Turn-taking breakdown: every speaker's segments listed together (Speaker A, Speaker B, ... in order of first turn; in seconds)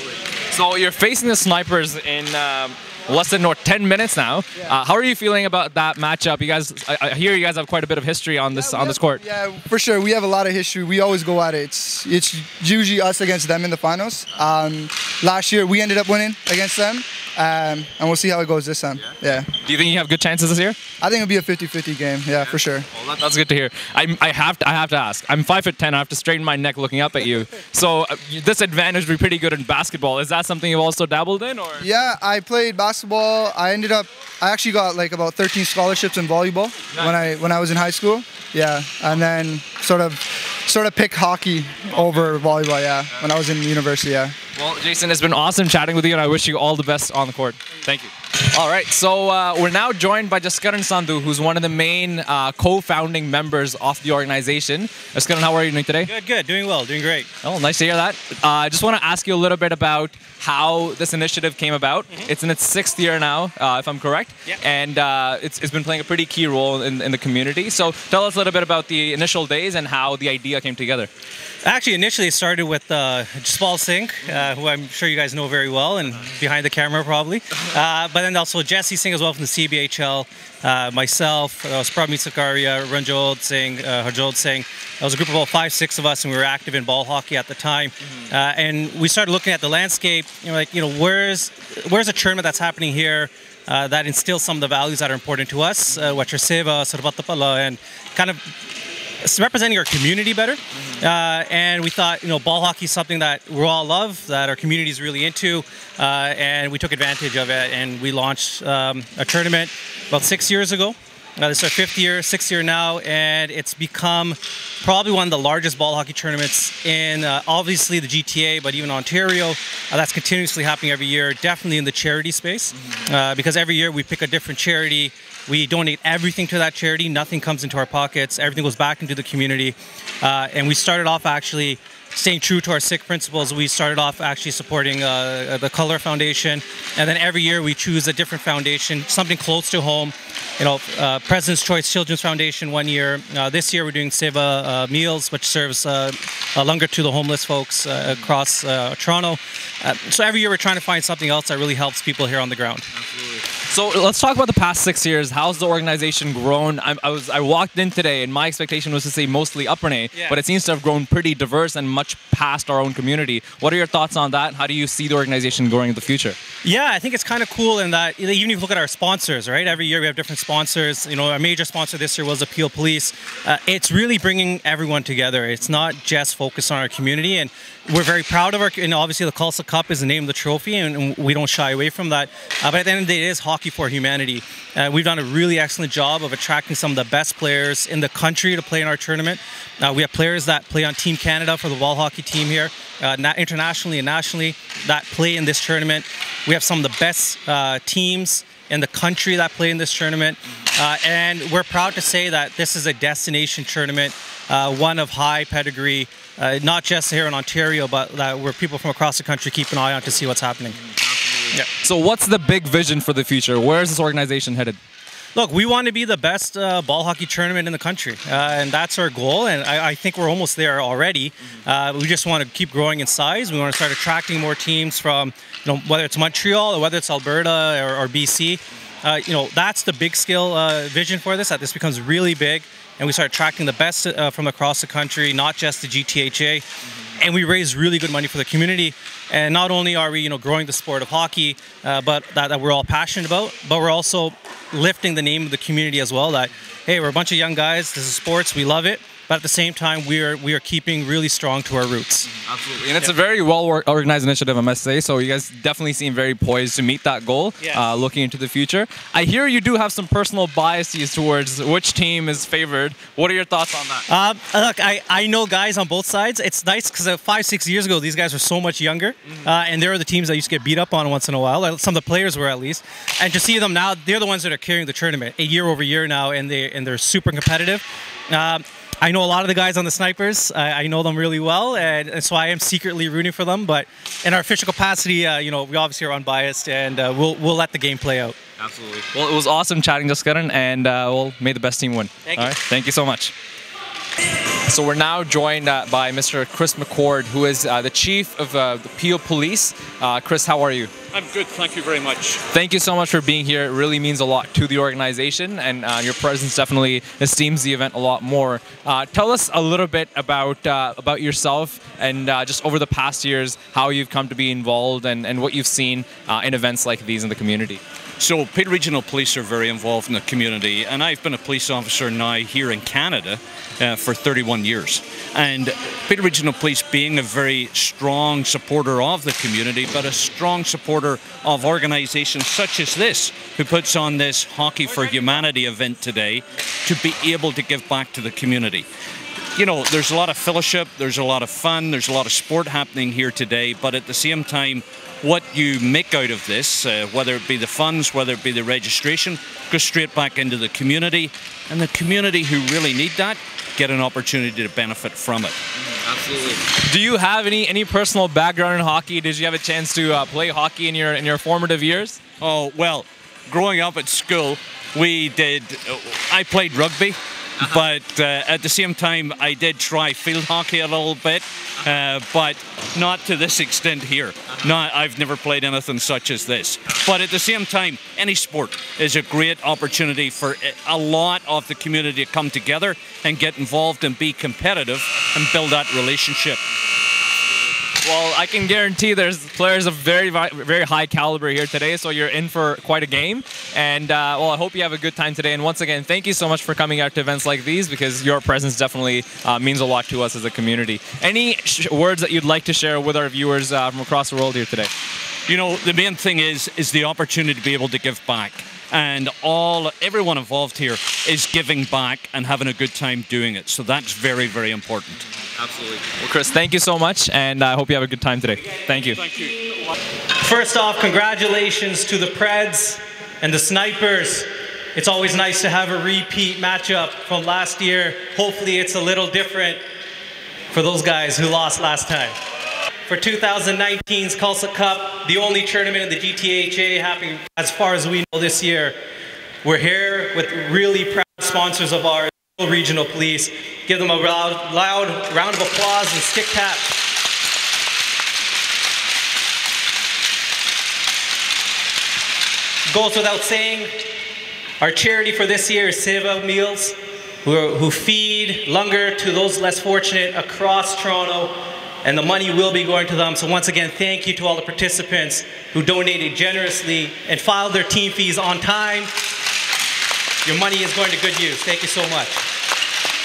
Speaker A: 0.5-9.2, 19.6-20.8, 22.4-31.9, 36.9-37.2, 44.5-56.1, 57.4-71.1, 152.9-166.4, 211.1-214.8, 252.5-264.1, 288.6-293.3, 294.7-300.9, 302.5-317.8, 355.9-362.2, 388.0-404.9, 415.6-419.2
Speaker B: 8.6-19.5, 21.0-22.9, 31.8-44.4
Speaker C: 56.1-57.3, 71.6-98.5, 99.2-152.9, 166.6-210.8, 215.3-236.7, 237.2-252.3, 264.1-288.4, 292.3-292.6, 420.4-429.9, 430.7-432.4, 433.1-439.0, 439.6-446.9, 452.9-453.9, 454.8-469.1, 470.4-472.4
Speaker D: 301.1-302.4, 318.2-338.9, 339.6-355.6, 362.4-386.6, 405.5-415.2, 419.2-419.6